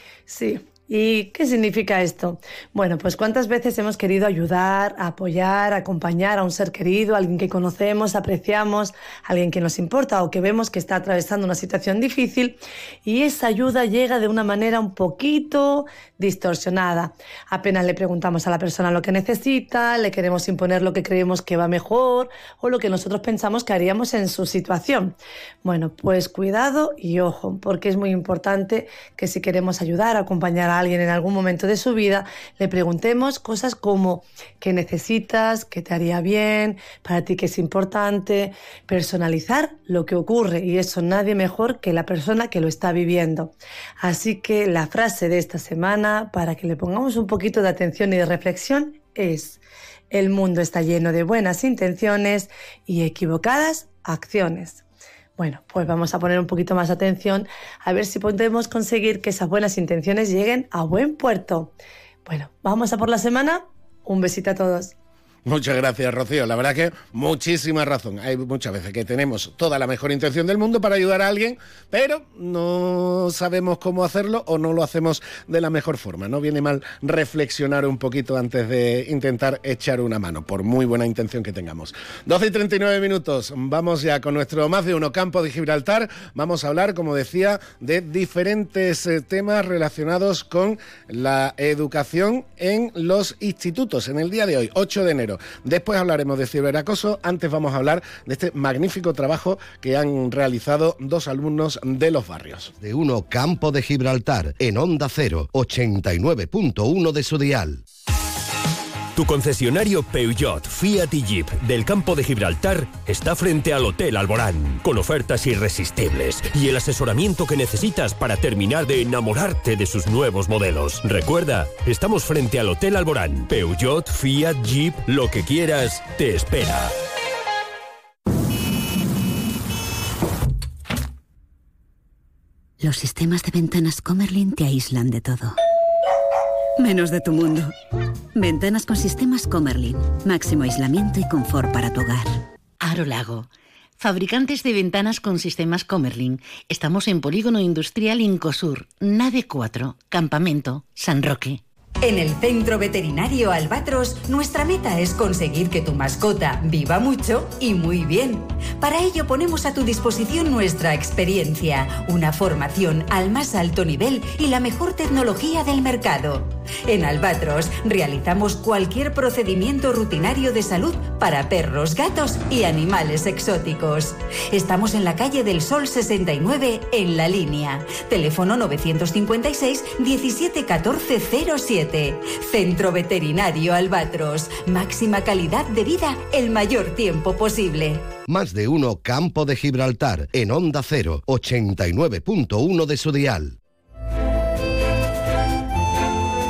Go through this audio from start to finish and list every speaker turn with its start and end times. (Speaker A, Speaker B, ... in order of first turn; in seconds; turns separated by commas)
Speaker A: 0.3-49.6, Speaker A: 50.1-54.8, Speaker A: 55.4-61.7, Speaker A: 62.2-64.9, Speaker B: 65.5-102.7, Speaker C: 102.8-107.8, Speaker D: 109.1-126.9, Speaker E: 132.8-135.6, Speaker E: 136.8-137.7, Speaker E: 138.3-142.4, Speaker F: 142.8-151.6, Speaker G: 152.0-188.1, Speaker C: 188.3-193.6